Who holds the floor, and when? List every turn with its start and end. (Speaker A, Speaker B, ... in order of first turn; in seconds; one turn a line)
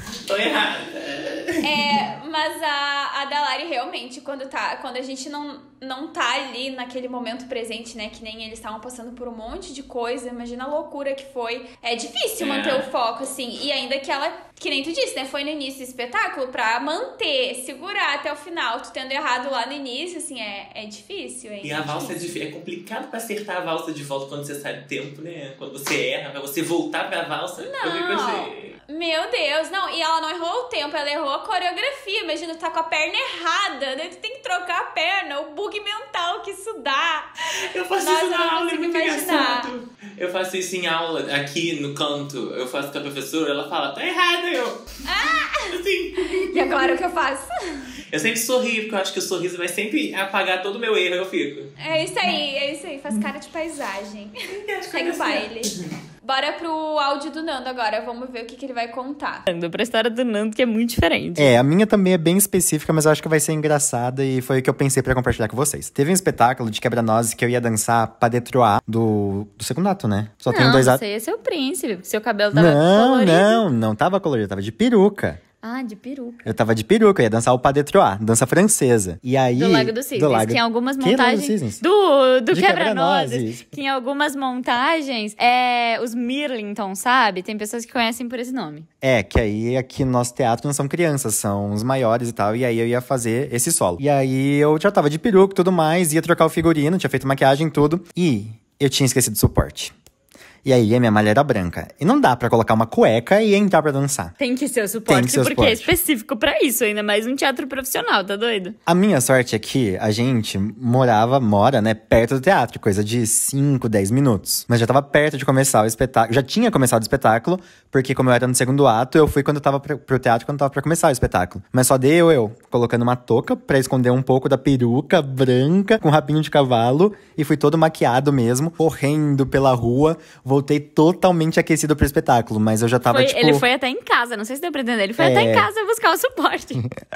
Speaker A: 0.3-1.7
Speaker B: 1.6-22.2
Speaker A: 12.4-12.9
Speaker A: 21.6-28.8
Speaker B: 27.6-37.3
Speaker A: 37.6-44.8
Speaker B: 38.0-39.7
Speaker B: 45.1-45.7
Speaker A: 45.6-47.0
Speaker B: 46.5-47.9
Speaker A: 48.1-51.7
Speaker B: 51.8-54.4
Speaker A: 54.5-55.8
Speaker B: 54.9-55.7
Speaker B: 56.2-59.5
Speaker C: 59.5-61.5
Speaker D: 61.4-71.0
Speaker C: 70.5-73.6
Speaker D: 72.5-75.4
Speaker C: 75.6-76.5
Speaker D: 76.5-81.8
Speaker C: 79.5-88.9
Speaker D: 82.5-83.7
Speaker D: 89.0-99.9
Speaker D: 100.6-104.3
Speaker C: 104.4-108.8
Speaker D: 105.1-105.9
Speaker D: 108.9-133.6
Speaker C: 133.1-136.8
Speaker D: 135.2-135.7